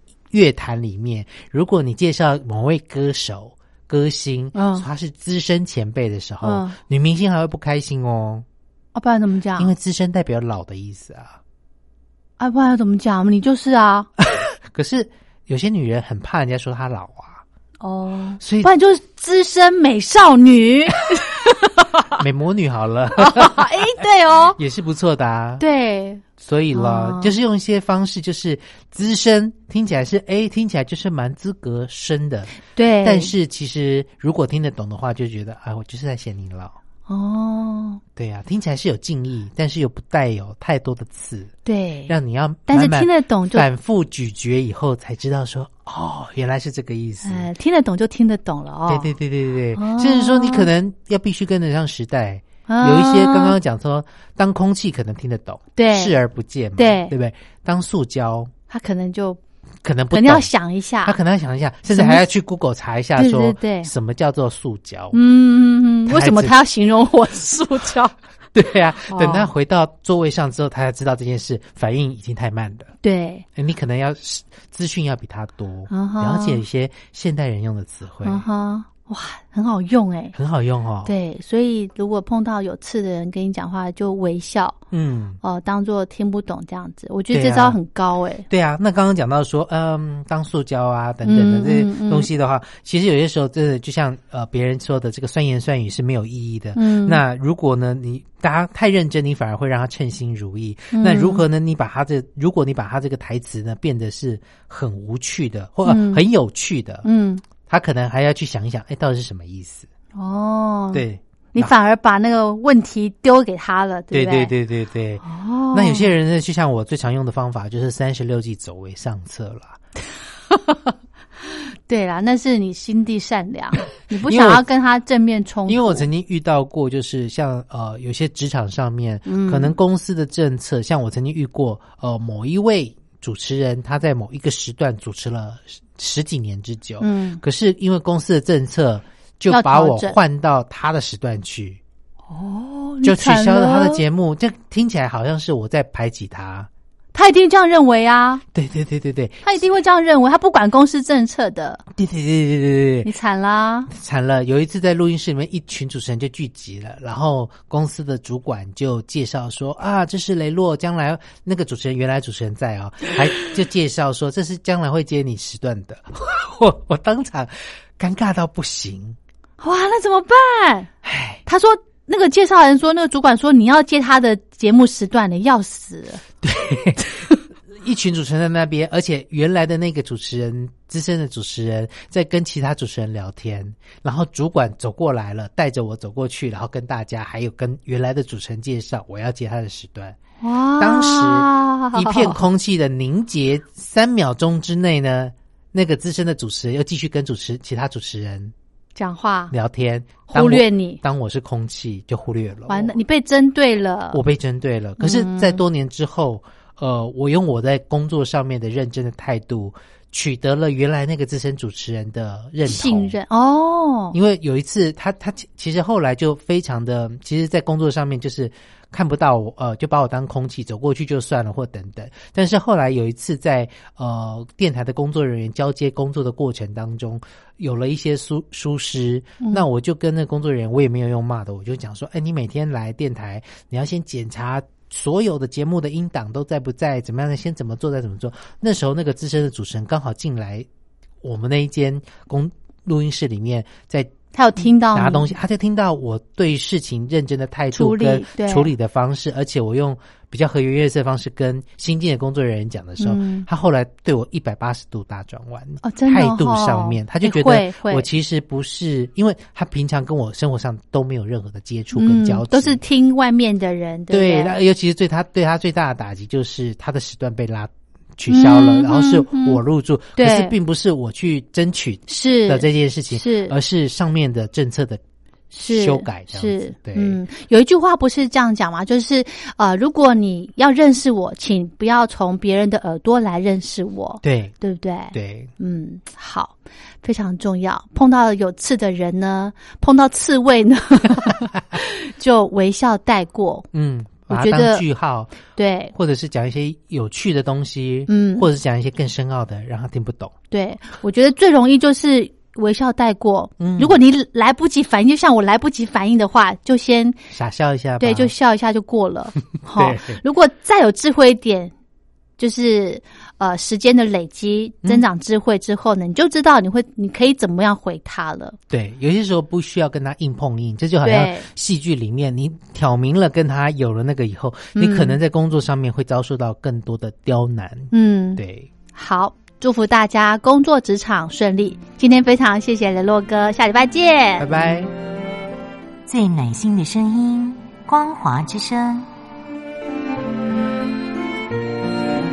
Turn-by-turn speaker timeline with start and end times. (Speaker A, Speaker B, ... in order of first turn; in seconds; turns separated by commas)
Speaker A: 0.3-8.4, Speaker B: 4.5-4.8, Speaker B: 6.4-6.8, Speaker B: 8.9-9.7, Speaker A: 9.6-11.4, Speaker B: 12.4-14.1, Speaker A: 14.2-17.4, Speaker B: 17.8-22.1, Speaker A: 18.4-18.7, Speaker A: 22.2-23.7, Speaker B: 23.2-24.6, Speaker A: 24.6-25.6, Speaker B: 25.6-27.4, Speaker A: 26.4-36.8, Speaker B: 32.7-33.3, Speaker B: 37.1-38.0, Speaker A: 38.1-41.5, Speaker B: 41.6-42.1, Speaker A: 42.1-47.5, Speaker B: 42.7-43.6, Speaker B: 47.2-49.1, Speaker A: 48.9-58.5, Speaker B: 49.7-50.7, Speaker B: 52.7-53.6, Speaker B: 55.8-56.1, Speaker B: 56.8-57.1, Speaker B: 58.7-59.4, Speaker A: 59.8-60.5, Speaker B: 60.1-61.1, Speaker A: 61.0-65.2, Speaker B: 61.9-62.2, Speaker B: 63.1-63.9, Speaker B: 65.1-68.1, Speaker A: 66.0-66.6, Speaker A: 68.5-72.9, Speaker B: 69.1-69.5, Speaker B: 73.0-73.4, Speaker A: 73.5-78.5, Speaker B: 75.9-76.6, Speaker B: 78.2-80.3, Speaker A: 80.3-81.1, Speaker B: 81.0-84.8, Speaker A: 84.9-85.4, Speaker B: 85.4-88.5, Speaker A: 87.3-87.8, Speaker A: 88.5-107.0, Speaker B: 91.2-92.3, Speaker B: 96.8-97.2, Speaker B: 100.9-101.4, Speaker B: 105.8-106.2, Speaker B: 107.0-107.4, Speaker A: 107.6-109.9, Speaker B: 110.2-114.5, Speaker A: 110.9-111.7, Speaker A: 114.1-119.8, Speaker B: 115.2-116.1, Speaker B: 121.9-126.0, Speaker A: 124.2-124.6, Speaker A: 125.7-141.8, Speaker B: 129.3-129.8, Speaker B: 137.0-137.4, Speaker B: 139.5-140.2, Speaker B: 142.3-144.0, Speaker A: 143.0-146.7, Speaker B: 147.1-148.4, Speaker A: 148.5-149.6, Speaker B: 149.4-151.8, Speaker A: 151.9-153.1, Speaker B: 153.0-153.9, Speaker A: 153.9-169.2, Speaker B: 169.6-170.9, Speaker A: 171.0-171.4, Speaker B: 171.4-176.2, Speaker A: 176.4-190.2, Speaker B: 190.4-192.4, Speaker A: 190.8-198.5, Speaker B: 198.9-199.5, Speaker A: 199.5-203.0, Speaker B: 200.3-201.0, Speaker B: 202.7-204.2, Speaker A: 204.1-213.2, Speaker B: 205.0-205.6, Speaker B: 212.6-214.2, Speaker A: 214.1-240.7, Speaker B: 229.4-229.7, Speaker A: 241.2-244.1, Speaker B: 244.3-245.3, Speaker A: 244.8-262.8, Speaker B: 247.7-248.7, Speaker B: 253.0-253.4, Speaker B: 255.8-258.1, Speaker B: 261.9-264.6, Speaker A: 264.1-275.0, Speaker B: 268.3-269.6, Speaker B: 270.1-270.5, Speaker B: 272.1-273.5, Speaker B: 275.5-293.6, Speaker A: 275.6-277.2, Speaker A: 284.2-284.5, Speaker A: 285.1-285.5, Speaker A: 293.7-295.3, Speaker B: 294.3-294.8, Speaker B: 295.6-295.9, Speaker A: 295.9-300.3, Speaker B: 298.1-298.5, Speaker B: 300.5-307.2, Speaker A: 303.6-304.0, Speaker A: 307.3-308.3, Speaker B: 308.0-311.7, Speaker A: 309.8-310.2, Speaker B: 312.4-318.6, Speaker A: 318.7-328.7, Speaker B: 321.0-321.5, Speaker B: 324.7-325.2, Speaker B: 327.9-328.4, Speaker B: 328.9-334.4, Speaker A: 334.4-334.9, Speaker C: 336.1-339.1